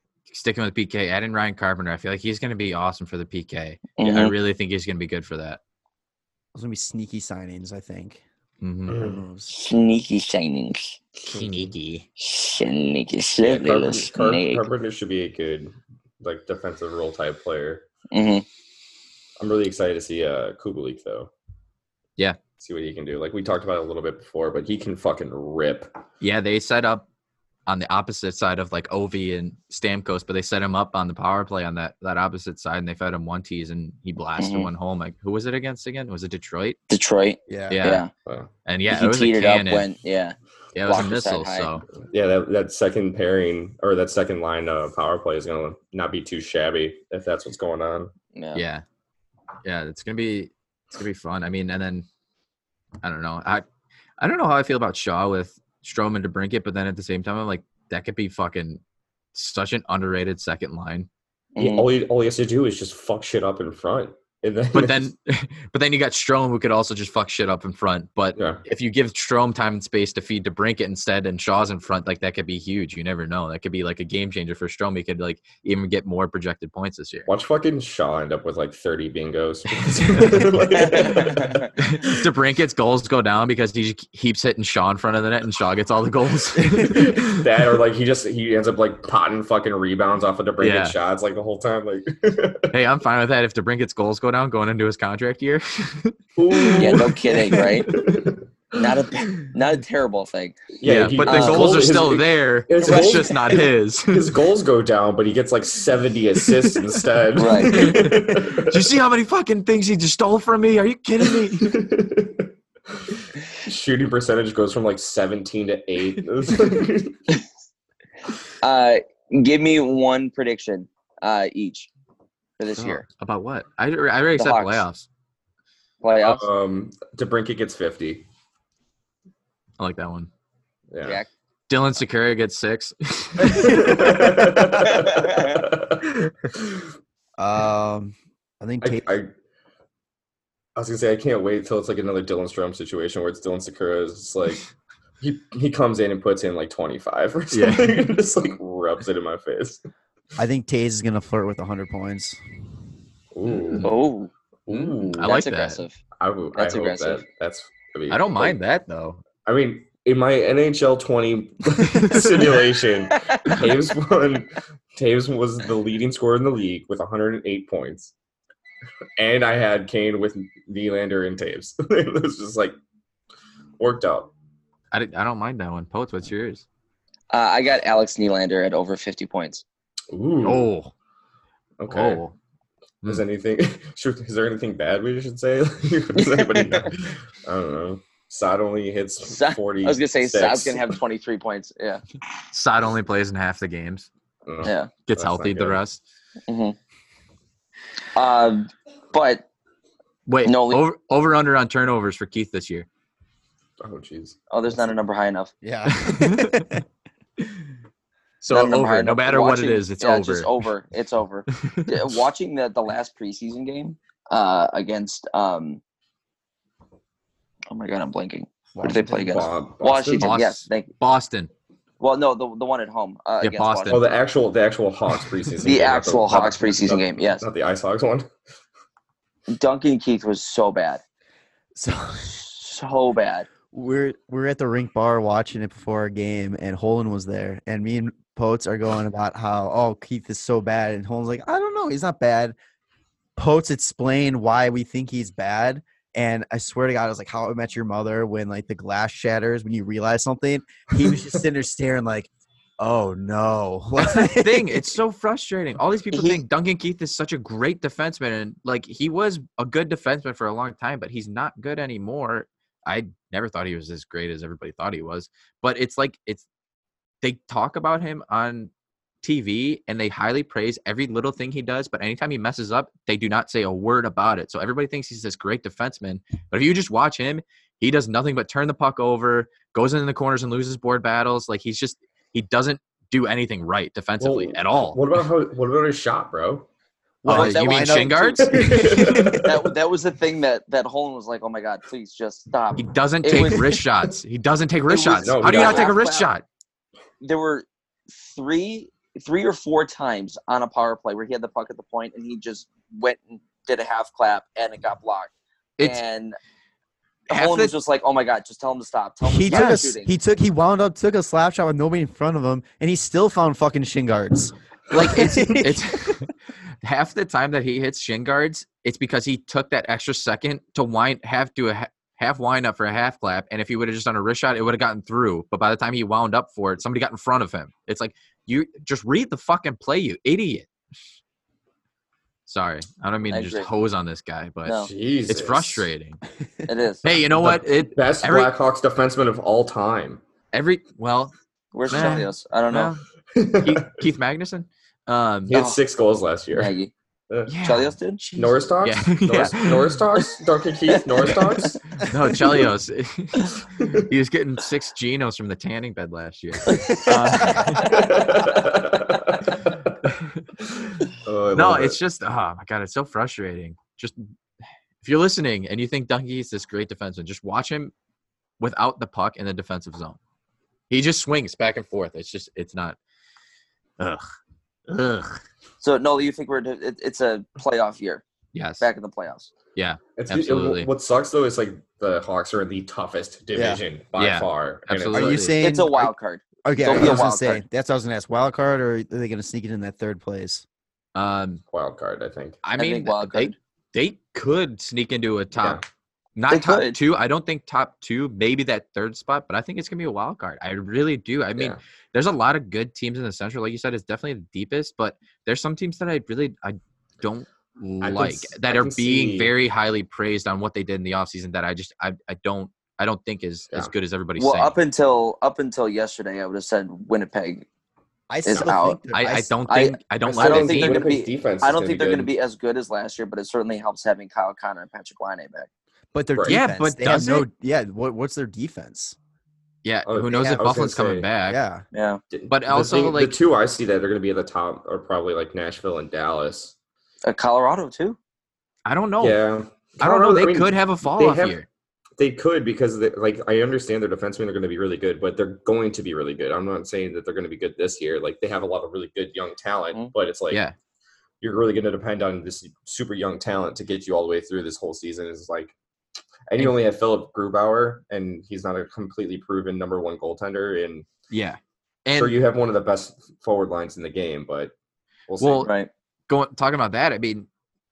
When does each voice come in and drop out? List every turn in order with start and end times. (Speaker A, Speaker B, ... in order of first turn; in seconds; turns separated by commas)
Speaker A: 0.3-5.6, Speaker B: 4.0-4.3, Speaker C: 6.5-8.2, Speaker A: 8.6-9.0, Speaker D: 8.9-9.2, Speaker C: 8.9-9.5, Speaker B: 9.5-11.0, Speaker A: 11.2-12.1, Speaker B: 12.2-14.7, Speaker D: 13.4-17.9, Speaker B: 18.1-18.4, Speaker D: 19.4-21.3, Speaker D: 22.6-25.9, Speaker A: 26.2-27.1, Speaker A: 27.7-36.8, Speaker B: 34.4-34.7, Speaker B: 36.9-38.1, Speaker C: 37.5-37.8, Speaker A: 37.7-38.1, Speaker A: 38.6-39.9, Speaker B: 38.9-41.7, Speaker A: 40.7-41.9, Speaker D: 42.0-48.1, Speaker B: 48.3-48.6, Speaker A: 48.5-48.8, Speaker A: 49.6-52.0, Speaker A: 53.0-53.6, Speaker A: 54.2-58.8, Speaker A: 59.3-61.1, Speaker B: 61.5-61.9, Speaker D: 61.6-65.1, Speaker A: 64.7-77.3, Speaker D: 68.3-68.6, Speaker D: 77.3-82.0, Speaker A: 79.9-80.5, Speaker B: 80.8-81.7, Speaker A: 81.8-87.4, Speaker D: 86.8-92.7, Speaker A: 90.6-91.0, Speaker A: 92.7-98.1, Speaker D: 96.3-98.4, Speaker B: 96.7-97.9, Speaker B: 98.7-100.6, Speaker D: 100.8-108.8, Speaker A: 100.8-104.4, Speaker B: 101.2-101.8, Speaker B: 102.8-103.3, Speaker B: 107.4-107.9, Speaker A: 107.6-111.8, Speaker D: 111.4-112.5, Speaker D: 113.5-117.2, Speaker B: 118.6-121.9, Speaker B: 122.6-123.0, Speaker A: 122.8-125.0, Speaker B: 124.3-124.8, Speaker B: 126.0-126.4, Speaker D: 126.2-128.2, Speaker A: 129.8-130.3, Speaker D: 130.9-131.2, Speaker B: 131.0-131.3, Speaker A: 131.7-134.0, Speaker D: 133.5-136.9, Speaker B: 134.8-135.6, Speaker C: 137.4-139.1, Speaker D: 138.8-139.3, Speaker D: 140.8-144.7, Speaker D: 145.2-149.8, Speaker A: 147.5-148.2, Speaker C: 150.4-152.4, Speaker D: 153.3-153.9, Speaker A: 153.5-153.9, Speaker B: 153.8-154.3, Speaker D: 154.7-155.3, Speaker A: 154.7-155.8, Speaker B: 155.1-156.0, Speaker D: 156.2-158.6, Speaker B: 156.5-157.2, Speaker A: 158.1-159.2, Speaker D: 159.4-168.1, Speaker A: 161.9-162.5, Speaker B: 163.3-163.6, Speaker D: 169.2-172.8, Speaker D: 173.8-174.3, Speaker A: 174.9-176.7, Speaker B: 177.3-179.6, Speaker D: 180.1-180.7, Speaker A: 180.4-180.9, Speaker D: 181.8-182.2, Speaker A: 181.9-182.3, Speaker D: 183.0-190.9, Speaker B: 186.2-186.9, Speaker B: 189.2-192.0, Speaker A: 192.5-194.1, Speaker D: 194.4-195.8, Speaker B: 194.6-194.9, Speaker A: 195.1-196.0, Speaker B: 196.5-196.8, Speaker B: 198.1-199.5, Speaker A: 200.2-202.9, Speaker B: 200.4-200.8, Speaker D: 203.8-204.4, Speaker B: 204.5-205.5, Speaker C: 205.6-206.8, Speaker A: 205.9-206.7, Speaker A: 208.4-210.6, Speaker B: 208.5-215.8, Speaker A: 211.5-211.9, Speaker B: 217.7-220.9, Speaker C: 218.7-219.4, Speaker D: 219.2-220.3, Speaker A: 220.2-221.5, Speaker B: 222.0-224.0, Speaker A: 223.4-224.0, Speaker D: 223.9-228.3, Speaker B: 225.6-227.4, Speaker B: 229.5-231.0, Speaker C: 231.7-232.3, Speaker B: 232.3-233.5, Speaker C: 233.7-242.5, Speaker C: 243.3-254.9, Speaker A: 254.0-266.4, Speaker B: 256.1-256.4, Speaker A: 267.2-268.7, Speaker A: 269.2-285.0, Speaker D: 284.2-286.7, Speaker C: 287.2-289.3, Speaker B: 287.2-293.7, Speaker A: 287.2-289.5, Speaker D: 288.4-289.5, Speaker A: 292.8-296.4, Speaker B: 294.9-296.3, Speaker D: 295.2-295.9, Speaker B: 297.2-306.4, Speaker B: 307.3-310.1, Speaker A: 307.3-307.7, Speaker C: 309.2-316.3, Speaker A: 309.5-309.8, Speaker A: 314.9-316.3, Speaker A: 316.8-330.7, Speaker A: 332.5-336.2, Speaker B: 333.3-333.7, Speaker B: 334.6-334.9, Speaker D: 334.8-335.9, Speaker B: 336.7-337.0, Speaker A: 337.0-338.5, Speaker D: 337.3-340.2, Speaker A: 340.5-341.3, Speaker B: 341.7-342.9, Speaker A: 341.9-343.0, Speaker D: 343.3-344.0, Speaker A: 343.6-345.6, Speaker D: 345.5-346.7, Speaker B: 345.5-345.8, Speaker B: 346.5-346.9, Speaker A: 347.5-350.0, Speaker B: 347.6-348.2, Speaker D: 348.4-352.0, Speaker A: 351.9-358.1, Speaker B: 356.7-357.1, Speaker D: 357.8-359.7, Speaker D: 361.2-362.0, Speaker A: 361.5-364.2, Speaker A: 365.0-367.9, Speaker A: 368.6-370.2, Speaker A: 370.9-373.0, Speaker A: 374.9-375.4, Speaker B: 375.8-378.2, Speaker A: 378.5-378.8, Speaker B: 378.8-379.5, Speaker A: 379.8-380.9, Speaker D: 380.2-385.4, Speaker C: 383.5-383.8, Speaker A: 384.2-385.5, Speaker C: 385.1-386.1, Speaker B: 385.6-387.6, Speaker C: 386.6-390.6, Speaker A: 391.1-391.6, Speaker D: 391.7-392.6, Speaker A: 392.6-395.8, Speaker B: 392.8-393.5, Speaker A: 396.4-414.8, Speaker B: 396.5-397.0, Speaker D: 408.0-409.5, Speaker B: 414.4-417.7, Speaker C: 418.3-419.6, Speaker B: 418.4-419.0, Speaker A: 419.1-421.0, Speaker B: 419.7-425.7, Speaker D: 420.2-422.3, Speaker C: 426.1-429.2, Speaker A: 426.5-427.5, Speaker A: 429.8-431.6, Speaker D: 430.1-431.3, Speaker C: 430.3-430.6, Speaker C: 431.5-431.8, Speaker B: 431.9-432.2, Speaker D: 432.3-436.7, Speaker A: 432.5-433.3, Speaker B: 437.2-438.2, Speaker A: 438.8-439.4, Speaker D: 439.2-441.6, Speaker A: 440.0-441.7, Speaker D: 442.2-450.6, Speaker A: 450.5-450.7, Speaker D: 451.4-455.7, Speaker D: 456.5-461.1, Speaker A: 461.3-462.4, Speaker D: 462.1-464.7, Speaker D: 465.3-465.7, Speaker A: 465.4-465.7, Speaker B: 465.6-465.9, Speaker A: 466.3-467.5